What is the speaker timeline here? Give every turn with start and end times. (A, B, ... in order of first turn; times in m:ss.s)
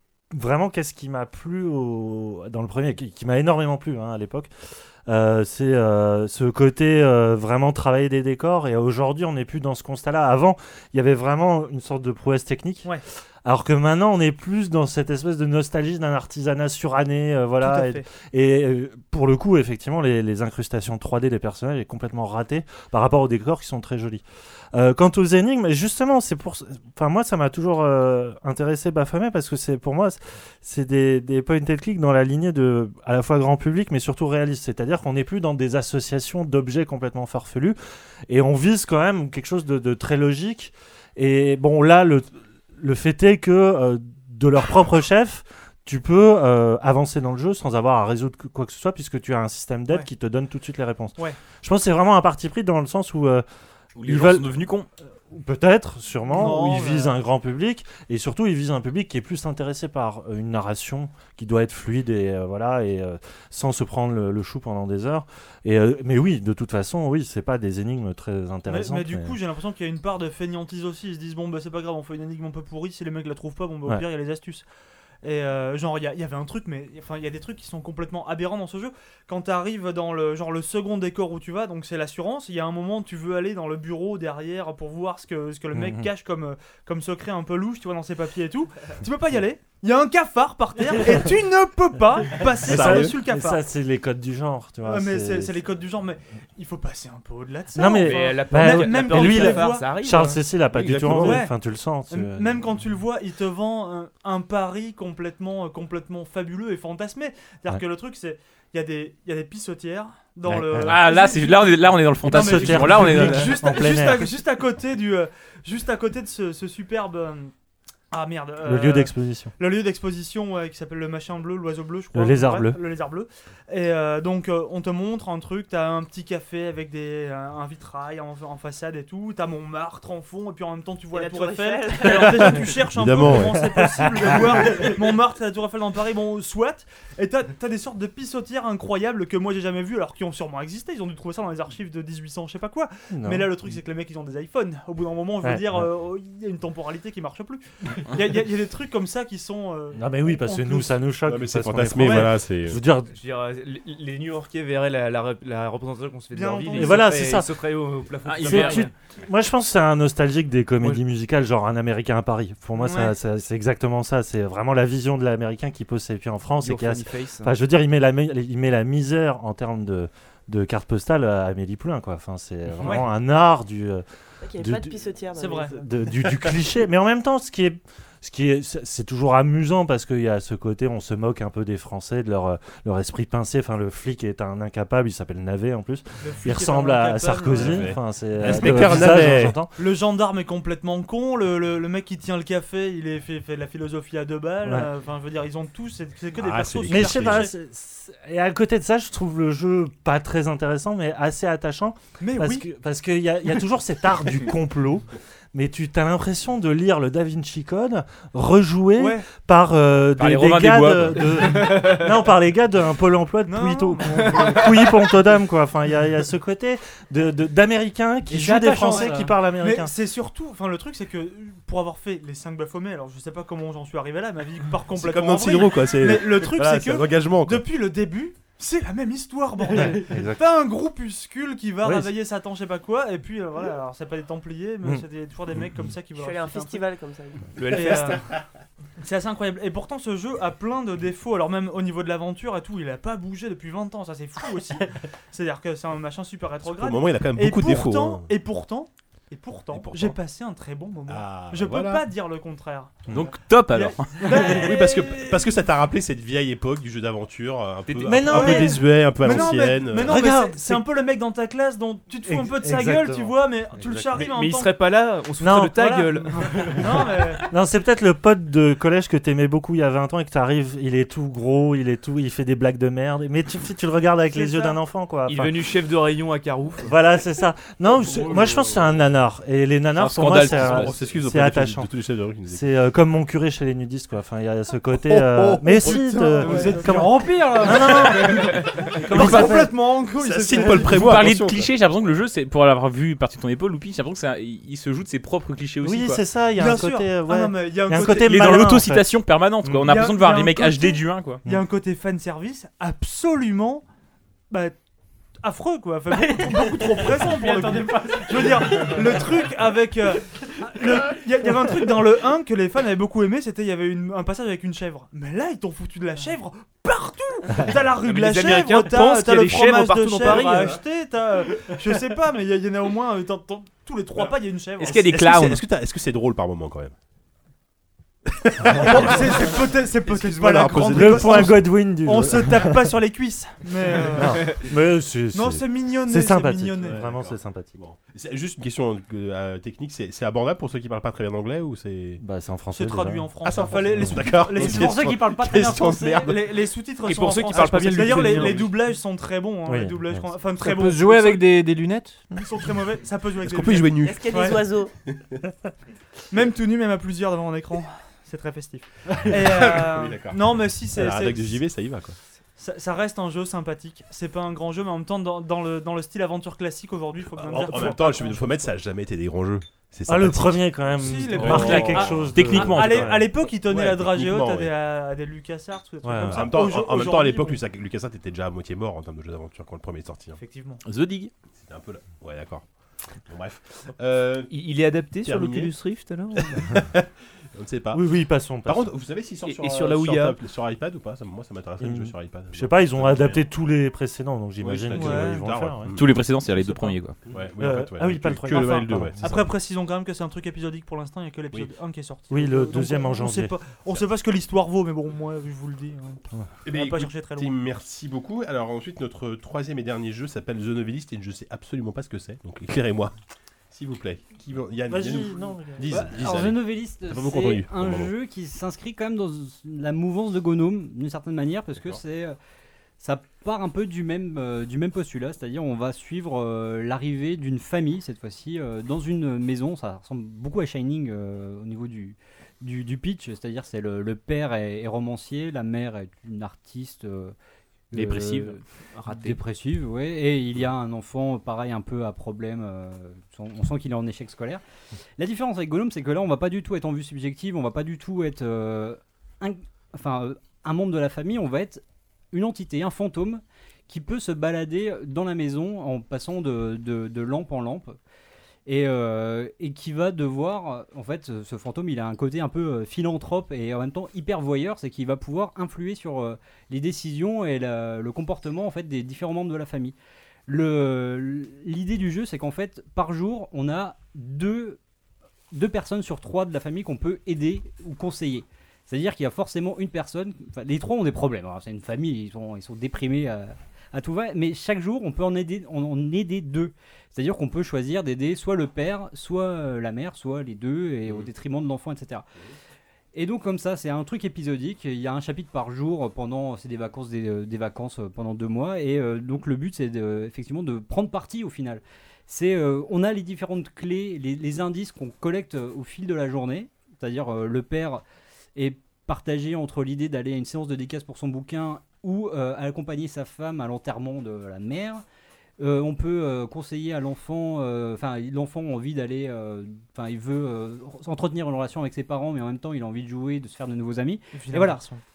0:00.3-0:04.5 A
0:05.1-0:12.9 A
0:13.4-0:24.2 A
0:17.6-0:18.0 B
0:24.7-0:37.8 A
0:38.3-0:53.4 A
0:53.9-0:54.9 C
0:54.0-0:54.5 A
0:55.3-1:09.4 A
0:56.3-0:57.2 B
1:08.7-1:14.6 B
1:15.2-1:33.6 B
1:25.7-1:26.1 A
1:32.6-1:35.6 A
1:32.6-1:33.2 D
1:34.8-1:40.0 B
1:37.7-1:42.6 A
1:38.0-1:40.4 E
1:40.7-1:41.4 D
1:41.0-1:41.5 B
1:42.1-1:57.5 B
1:50.4-1:51.0 A
1:50.8-1:53.6 C
1:52.3-1:54.3 A
1:58.1-2:31.0 B
1:58.6-1:59.5 A
2:02.1-2:02.8 A
2:11.1-2:12.8 F
2:12.8-2:13.8 D
2:13.3-2:14.7 A
2:23.1-2:23.5 A
2:25.4-2:25.9 A
2:29.9-2:33.1 A
2:31.2-2:32.8 D
2:32.0-2:32.3 B
2:33.1-2:38.9 E
2:36.3-2:37.2 B
2:36.7-2:37.5 A
2:38.2-2:38.9 C
2:38.4-2:54.0 A
2:42.8-2:43.1 B
2:46.6-2:47.5 E
2:52.8-2:53.1 B
2:54.4-2:55.8 F
2:54.6-2:55.0 A
2:55.4-2:55.8 B
2:55.8-3:09.7 A
3:06.2-3:07.9 B
3:07.6-3:09.6 D
3:08.5-3:17.5 B
3:16.4-3:17.5 D
3:16.9-3:39.9 A
3:22.2-3:22.6 B
3:29.0-3:29.3 B
3:30.2-3:31.6 C
3:33.5-3:35.0 B
3:38.3-3:39.3 G
3:38.6-3:56.8 B
3:45.0-3:47.6 D
3:49.7-3:50.4 A
3:51.8-3:52.1 A
3:56.1-3:57.8 F
3:57.6-3:58.2 E
3:57.7-3:58.3 B
3:59.0-4:13.0 B
4:06.6-4:08.3 D
4:09.7-4:10.2 D
4:11.1-4:12.1 D
4:13.1-4:14.5 C
4:13.7-4:15.4 B
4:14.2-4:20.2 D
4:17.9-4:18.2 E
4:18.0-4:20.8 A
4:18.2-4:24.7 B
4:22.3-4:24.3 A
4:24.2-4:27.0 E
4:25.4-4:35.6 A
4:25.8-4:27.5 B
4:34.3-4:34.8 B
4:35.3-4:36.9 E
4:36.8-4:41.9 A
4:39.9-4:40.9 C
4:40.3-4:42.6 D
4:42.5-4:48.5 A
4:45.0-4:45.9 D
4:45.8-4:47.5 H
4:45.8-4:51.1 B
4:48.1-4:48.4 H
4:49.1-4:49.6 C
4:49.1-4:49.7 A
4:49.1-4:49.6 D
4:50.1-4:51.7 D
4:50.8-4:56.2 C
4:55.8-4:59.1 A
4:56.6-4:58.8 B
4:58.0-5:01.4 C
4:59.8-5:03.8 B
5:04.5-5:04.8 B
5:05.4-5:25.0 B
5:06.4-5:09.0 H
5:18.0-5:20.8 E
5:20.2-5:20.8 D
5:24.8-5:25.6 C
5:24.9-5:26.9 D
5:28.3-5:31.6 D
5:28.7-5:34.7 B
5:30.9-5:32.9 A
5:34.1-5:37.8 A
5:35.3-5:37.0 B
5:36.8-5:42.2 D
5:42.2-5:43.3 A
5:42.7-5:45.2 B
5:43.4-5:46.7 D
5:43.9-5:44.3 A
5:44.6-5:46.3 G
5:46.2-5:51.4 B
5:47.0-5:48.7 E
5:47.5-5:48.7 H
5:49.6-5:50.3 A
5:50.6-5:52.4 H
5:52.4-5:54.6 B
5:53.4-5:54.5 D
5:53.9-5:54.9 F
5:55.0-5:55.4 D
5:56.3-6:01.6 B
5:59.3-6:02.2 D
6:02.6-6:08.7 B
6:07.3-6:12.6 D
6:10.1-6:13.3 A
6:10.9-6:17.6 B
6:11.4-6:13.2 C
6:13.5-6:14.7 D
6:16.0-6:16.6 A
6:16.3-6:20.4 D
6:20.4-6:20.8 B
6:20.8-6:21.3 C
6:21.6-6:22.6 D
6:23.3-6:24.5 D
6:24.5-6:26.8 E
6:25.2-6:25.7 D
6:26.4-6:28.0 D
6:27.9-6:28.9 A
6:28.6-6:33.4 D
6:29.4-6:30.4 E
6:31.8-6:36.0 A
6:34.6-6:36.1 D
6:35.0-6:35.4 B
6:35.9-6:37.2 C
6:37.3-6:39.5 D
6:37.6-6:39.3 A
6:38.5-6:47.5 B
6:42.3-6:43.5 A
6:46.6-6:53.1 D
6:53.7-6:58.1 D
6:54.9-6:56.1 A
6:55.9-7:02.4 G
7:03.0-7:17.3 G
7:17.9-7:24.6 G
7:17.9-7:18.6 C
7:19.0-7:19.3 E
7:25.2-7:38.0 G
7:38.6-7:49.9 G
7:50.5-7:54.8 G
7:55.5-8:12.3 G
8:13.1-8:28.0 G
8:28.6-8:35.0 G
8:35.6-8:44.8 G
8:44.3-8:45.0 B